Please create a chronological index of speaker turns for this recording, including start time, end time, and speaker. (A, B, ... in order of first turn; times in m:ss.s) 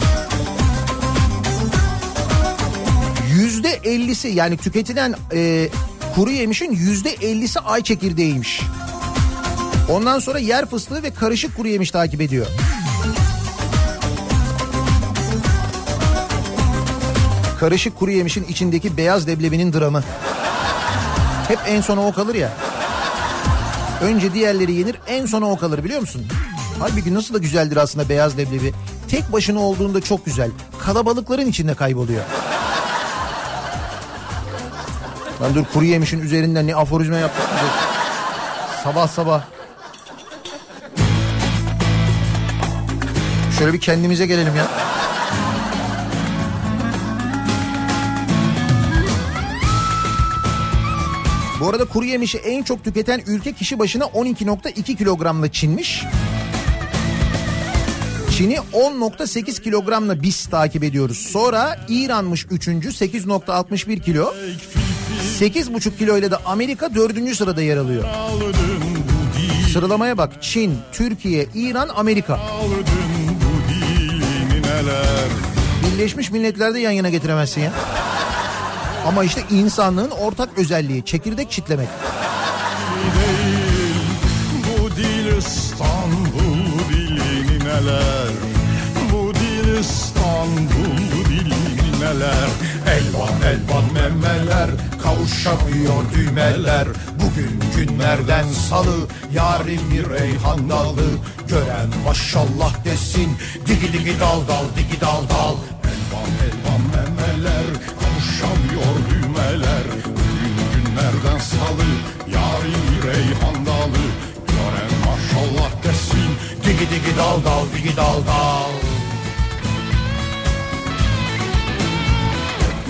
0:03.2-0:08.7 A
0:09.9-0:12.5 A
0:17.6-0:20.1 A
0:21.5-0:22.6 A
0:24.0-0:32.3 A
0:35.4-0:37.8 A
0:38.8-0:39.5 A
0:43.5-0:44.7 A
0:51.6-0:56.1 A
0:58.3-1:04.4 A
1:04.5-1:05.4 B
1:05.2-1:08.1 A
1:08.0-1:09.8 B
1:09.6-1:12.4 A
1:12.4-1:15.4 B
1:15.8-1:17.8 A
1:19.0-1:22.0 A
1:22.9-1:28.4 B
1:29.0-1:59.0 B
1:38.2-1:39.1 A